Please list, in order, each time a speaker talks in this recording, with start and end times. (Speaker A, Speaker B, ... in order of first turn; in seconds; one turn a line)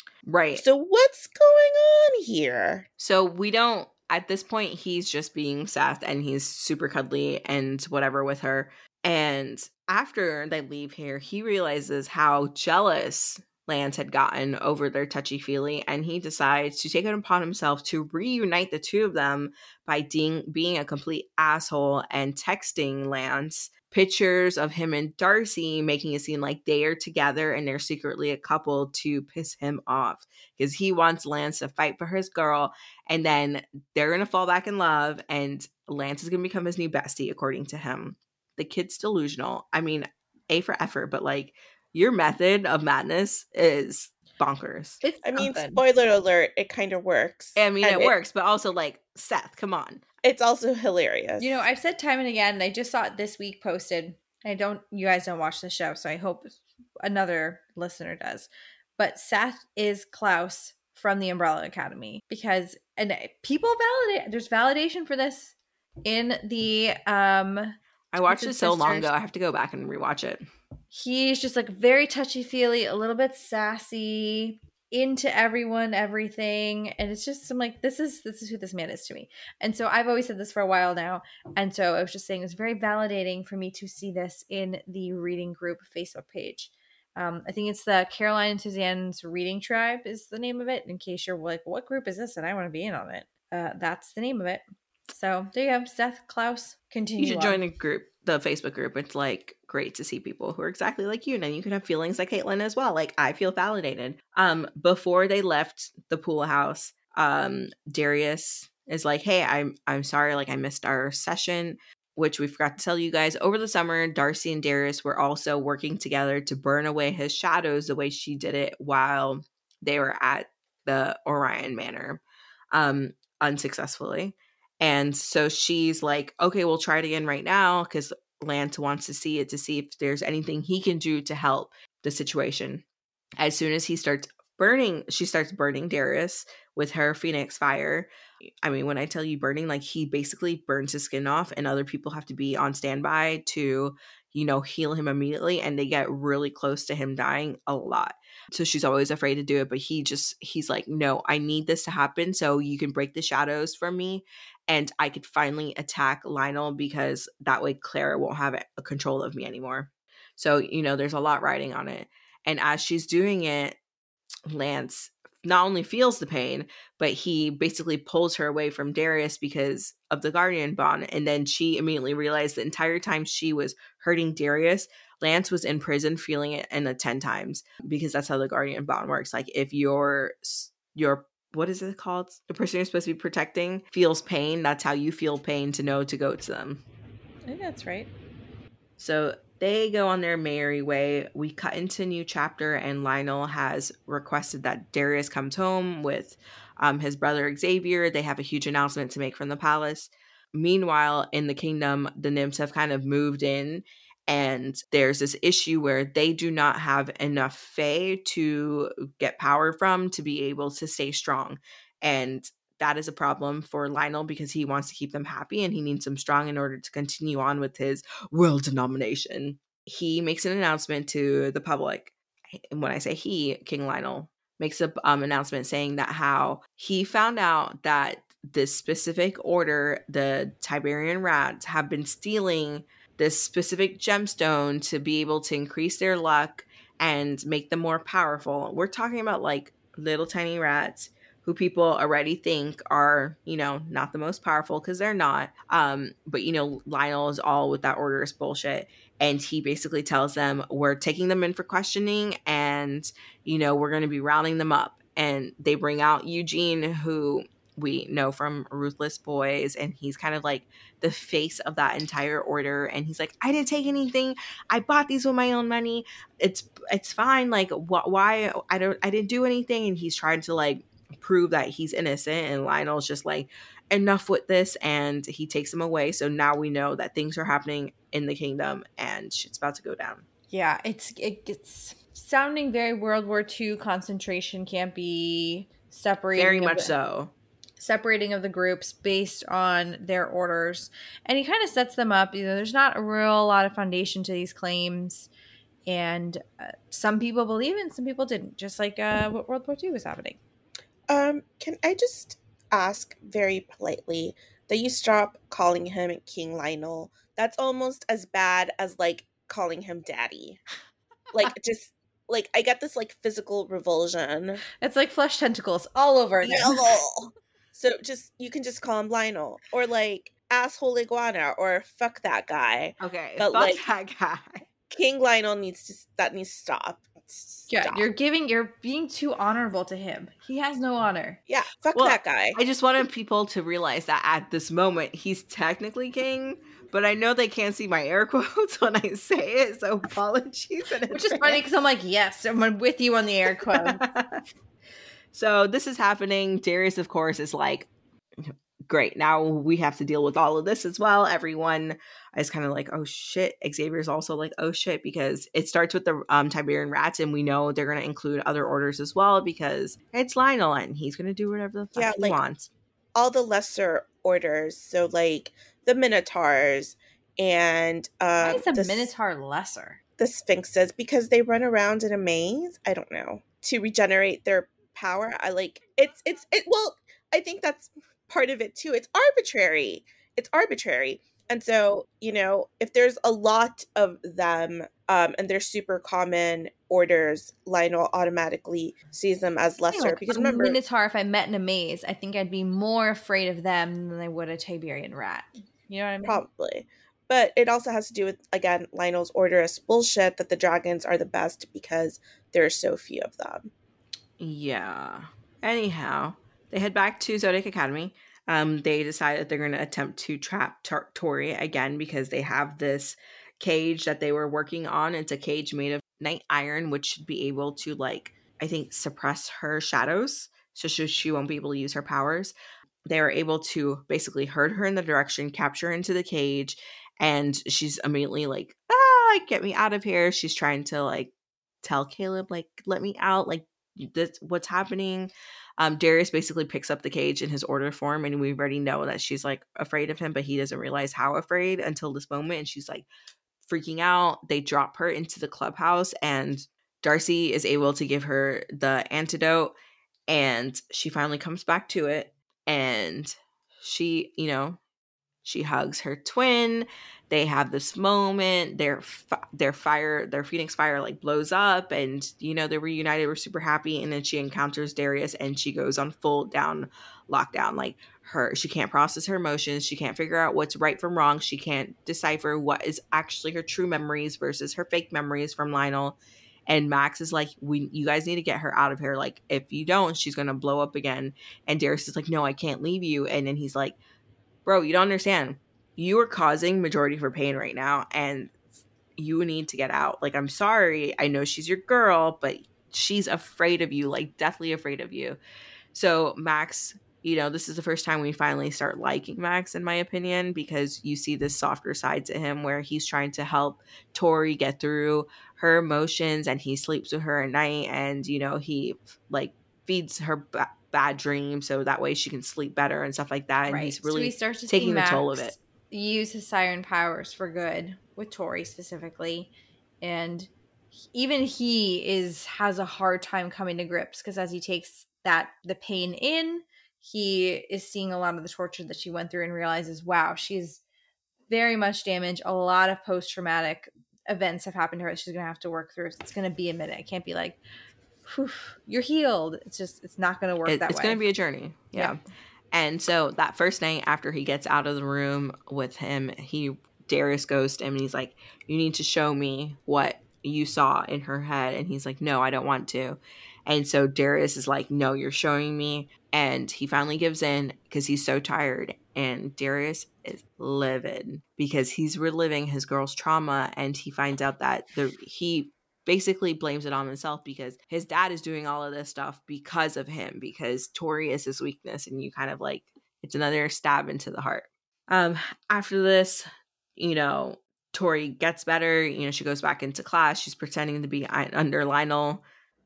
Speaker A: 0.2-0.6
Speaker B: 0.5-2.9
Speaker A: 3.0-45.0
Speaker C: 45.0-45.8
Speaker B: 45.2-48.1
Speaker A: 47.6-50.0
Speaker B: 50.2-51.6
Speaker C: 51.4-65.5
Speaker C: 66.0-69.1
Speaker A: 68.1-70.4
Speaker C: 70.9-97.6
Speaker A: 97.2-132.8
Speaker A: 133.4-138.1
Speaker A: 138.6-163.8
Speaker A: 164.5-186.8
Speaker C: 187.4-188.1
Speaker A: 189.0-222.1
Speaker A: 222.7-280.2
Speaker C: 280.5-286.9
Speaker A: 286.3-287.3
Speaker C: 287.8-295.3
Speaker C: 295.9-300.4
Speaker B: 301.1-310.6
Speaker B: 311.3-314.6
Speaker C: 314.8-316.9
Speaker B: 316.4-323.8
Speaker A: 323.0-324.6
Speaker B: 324.9-328.1
Speaker C: 327.7-331.4
Speaker B: 331.5-332.6
Speaker A: 331.9-341.6
Speaker C: 341.1-344.0
Speaker A: 343.7-344.4
Speaker A: 345.3-347.9
Speaker A: 348.4-362.7
Speaker B: 361.9-362.4
Speaker B: 363.1-369.1
Speaker C: 368.4-370.0
Speaker B: 370.2-390.8
Speaker C: 389.9-396.4
Speaker B: 396.2-403.7
Speaker A: 404.4-422.5
Speaker A: 423.1-443.1
Speaker A: 443.6-449.7
Speaker A: 450.3-454.8
Speaker A: 455.4-484.0
Speaker A: 484.6-488.5
Speaker A: 489.2-495.4
Speaker A: 495.9-515.5
Speaker C: 513.7-519.5
Speaker C: 520.0-520.5
Speaker C: 521.1-530.8
Speaker C: 531.5-537.6
Speaker C: 538.2-541.2
Speaker A: 540.6-542.2
Speaker A: 542.7-576.5
Speaker A: 577.0-582.4